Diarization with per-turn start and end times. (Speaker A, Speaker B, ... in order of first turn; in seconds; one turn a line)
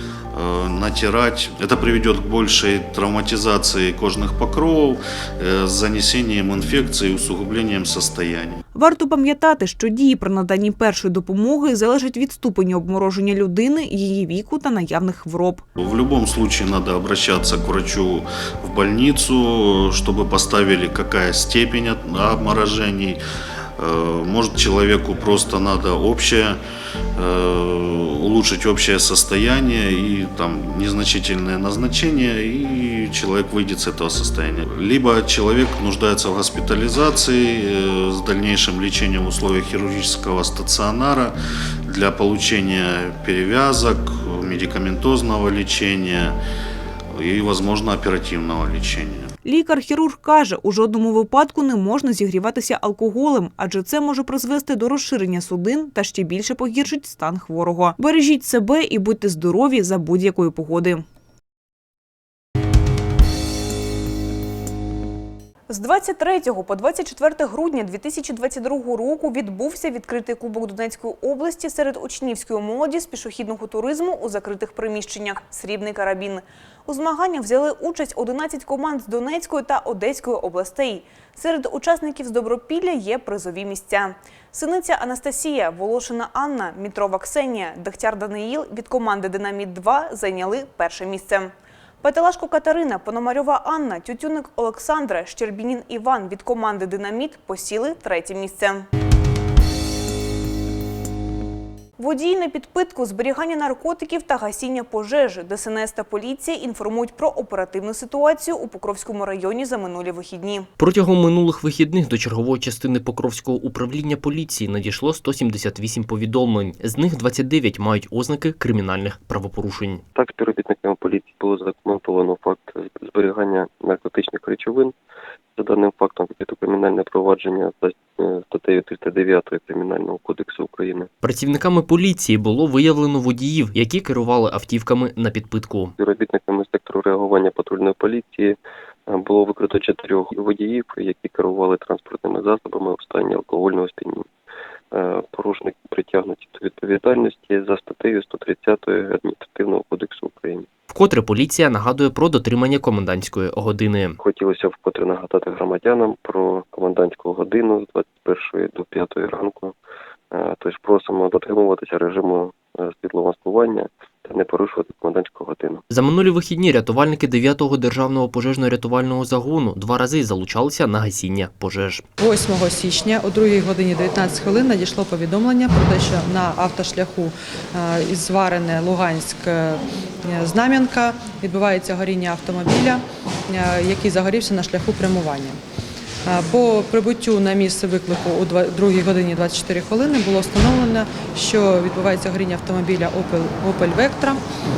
Speaker A: 0.3-8.6
Speaker B: 8.7-15.6
Speaker A: 15.8-23.2
Speaker A: 23.8-26.6
Speaker A: 27.2-46.4
Speaker A: 47.1-49.3
Speaker B: 49.5-61.0
Speaker B: 65.7-98.9
Speaker B: 102.0-110.7
Speaker C: 110.8-120.0
Speaker D: 120.2-124.9
Speaker D: 125.6-131.1
Speaker C: 131.2-135.9
Speaker D: 136.0-138.6
Speaker D: 139.1-144.3
Speaker D: 144.9-150.7
Speaker C: 150.9-154.2
Speaker D: 154.2-159.7
Speaker D: 160.3-165.8
Speaker C: 165.9-172.1
Speaker E: 172.2-185.6
Speaker E: 186.3-194.4